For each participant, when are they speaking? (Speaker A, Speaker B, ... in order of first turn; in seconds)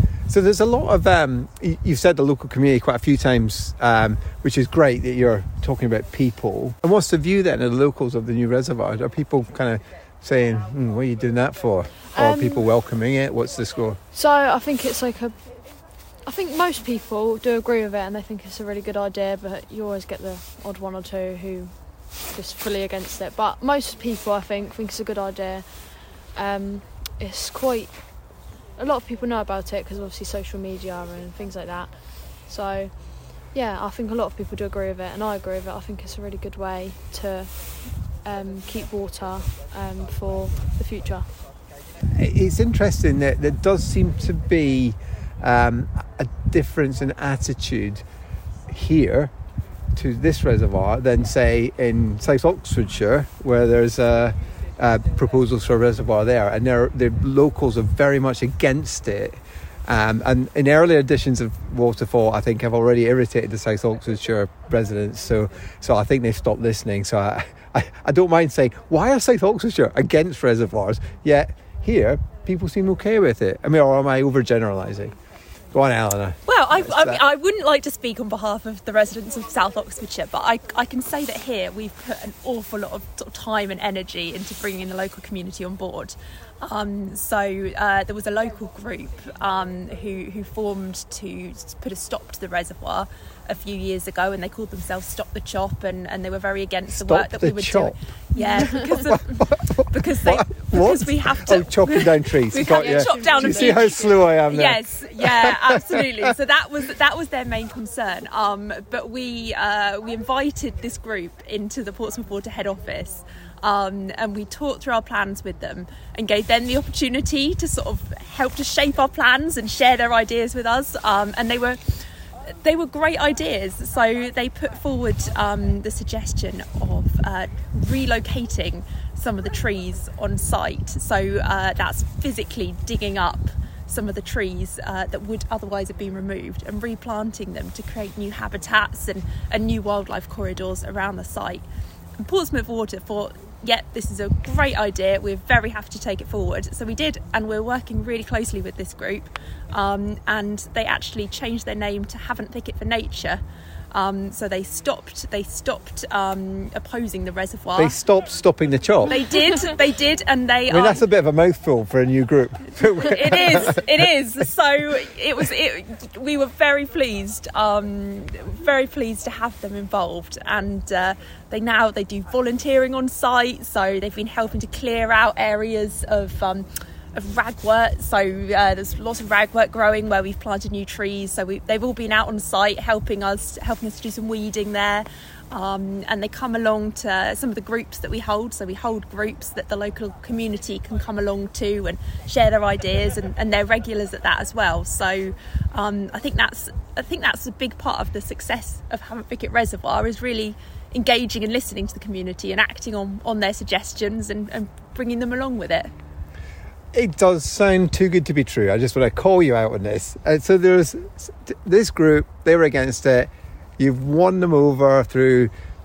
Speaker A: 0.3-14.0, 42.1-48.0, 48.7-49.3, 50.0-75.1, 75.7-77.2, 96.9-98.0, 98.5-106.2, 157.8-159.2, 160.7-163.9, 206.9-215.5
Speaker B: 12.1-12.7, 14.1-15.4, 16.2-25.7, 26.3-28.0, 28.8-32.9, 33.5-41.3, 98.3-98.8, 102.6-104.3
Speaker C: 76.5-122.0, 122.6-141.7, 142.2-157.9, 159.1-161.0, 163.0-205.9